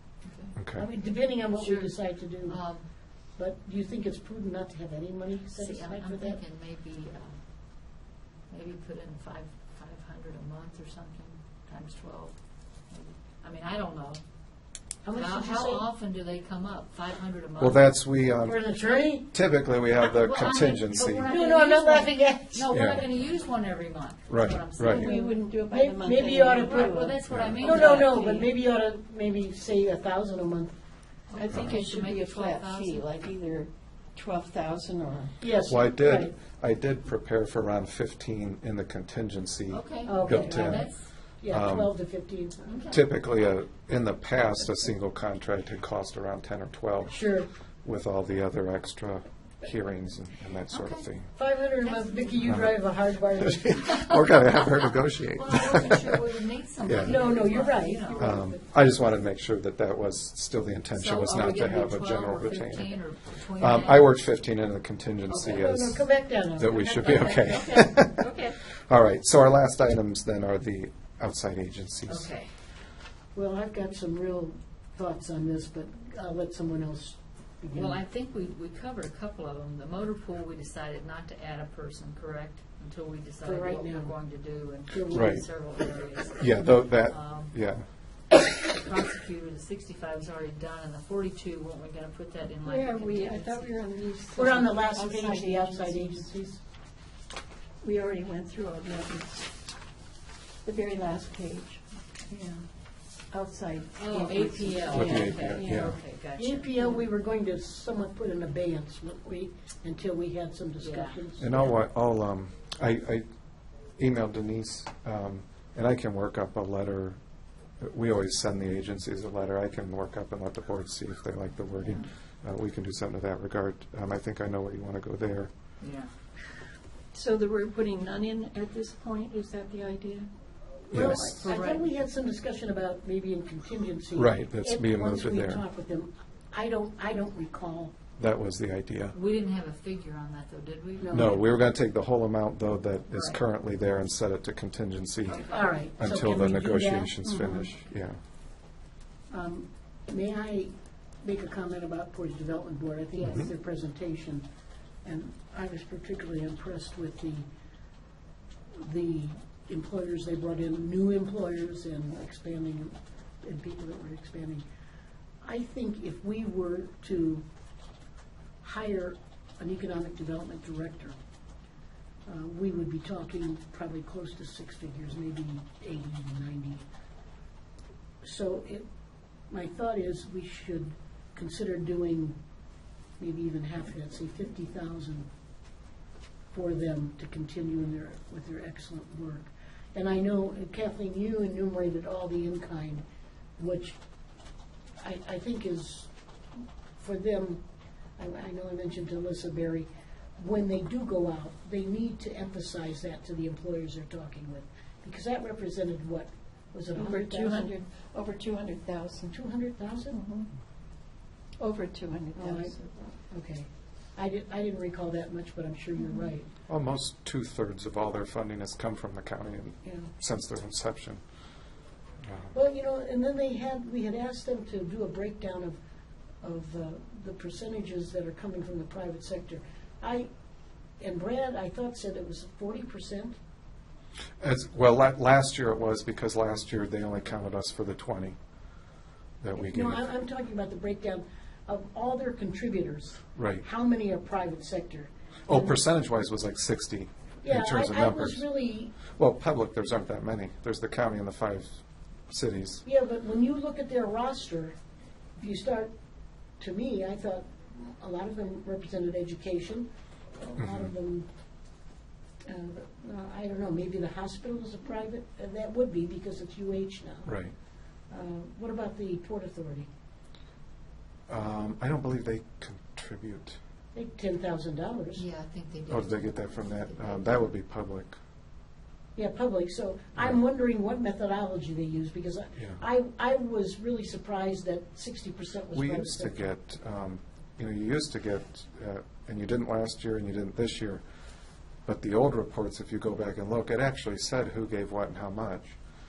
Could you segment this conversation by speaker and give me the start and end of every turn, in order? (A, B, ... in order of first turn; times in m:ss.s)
0:00.2-0:00.6 A
0:00.6-0:00.8 B
0:00.7-0:02.6 C
0:01.6-0:02.8 A
0:03.4-0:06.4 C
0:05.6-0:14.2 A
0:15.0-0:15.8 C
0:15.1-0:17.9 A
0:17.6-0:21.3 B
0:18.4-0:19.3 C
0:20.0-0:25.3 A
0:21.2-0:23.0 C
0:22.7-0:23.0 B
0:24.3-0:25.2 B
0:24.8-0:28.5 D
0:25.7-0:30.7 C
0:26.6-0:28.5 A
0:27.2-0:27.6 B
0:31.3-0:33.0 A
0:31.4-0:35.3 D
0:35.4-0:36.3 C
0:35.6-0:40.9 B
0:39.7-0:41.1 A
0:40.0-0:40.8 C
0:41.4-0:42.8 C
0:41.4-0:41.9 B
0:42.7-0:43.0 A
0:42.9-0:47.2 B
0:47.1-0:47.5 C
0:47.8-0:51.3 B
0:50.7-0:51.0 A
0:51.3-0:54.0 C
0:51.8-0:52.4 A
0:53.5-0:56.1 B
0:55.3-0:58.4 A
0:56.8-0:57.2 B
0:57.0-0:58.2 C
0:58.1-1:03.0 B
1:00.9-1:04.1 A
1:03.6-1:08.2 B
1:05.3-1:07.5 C
1:06.8-1:08.6 A
1:08.8-1:12.3 B
1:12.1-1:12.5 A
1:13.3-1:18.0 C
1:17.7-1:27.5 A
1:23.4-1:24.1 C
1:24.9-1:25.4 C
1:25.1-1:25.4 B
1:26.4-1:27.8 B
1:28.4-1:33.7 A
1:32.6-1:36.3 D
1:34.4-1:36.6 C
1:37.8-1:39.6 D
1:40.6-1:42.6 D
1:43.3-1:46.0 D
1:44.0-1:46.9 A
1:44.9-1:46.0 B
1:44.9-1:45.3 C
1:46.4-1:51.6 C
1:50.8-1:51.2 A
1:51.4-1:53.2 B
1:54.0-1:57.2 B
1:57.8-2:05.5 B
2:01.8-2:02.1 A
2:05.8-2:06.1 A
2:07.1-2:10.3 D
2:10.9-2:11.5 D
2:10.9-2:11.5 B
2:10.9-2:17.9 C
2:11.4-2:11.8 A
2:14.1-2:15.6 B
2:18.2-2:19.2 B
2:19.1-2:21.4 A
2:21.0-2:21.3 C
2:21.1-2:28.2 B
2:23.1-2:23.4 A
2:25.3-2:25.6 A
2:25.4-2:27.2 C
2:27.2-2:27.6 D
2:29.3-2:30.7 C
2:31.2-2:34.4 C
2:35.0-2:37.5 C
2:38.8-2:44.6 C
2:45.4-2:47.4 C
2:48.6-2:51.2 C
2:52.2-2:56.8 C
2:58.2-2:58.8 C
2:59.5-3:02.4 C
3:03.2-3:05.3 C
3:06.5-3:13.0 C
3:13.6-3:14.0 C
3:15.0-3:16.1 C
3:17.0-3:17.6 C
3:18.2-3:27.7 C
3:26.9-3:29.4 D
3:29.3-3:30.2 C
3:30.1-3:30.5 D
3:31.6-3:32.9 D
3:32.4-3:32.7 C
3:33.3-3:36.5 C
3:36.6-3:41.2 B
3:39.8-3:40.1 C
3:42.3-3:42.5 B
3:42.5-3:45.8 C
3:46.4-3:50.3 C
3:51.0-3:53.3 C
3:54.4-3:58.4 B
3:59.4-4:00.0 B
3:59.5-4:05.8 C
4:03.4-4:03.6 B
4:05.5-4:08.4 B
4:07.4-4:09.0 C
4:09.0-4:12.8 B
4:12.8-4:14.7 C
4:15.4-4:15.9 C
4:16.6-4:19.9 C
4:20.4-4:21.3 C
4:22.4-4:27.3 C
4:27.2-4:27.5 B
4:28.1-4:29.9 C
4:31.3-4:33.6 B
4:33.9-4:35.2 C
4:35.2-4:37.5 A
4:35.9-4:38.2 B
4:39.2-4:46.4 C
4:45.7-4:51.0 B
4:51.8-4:55.8 B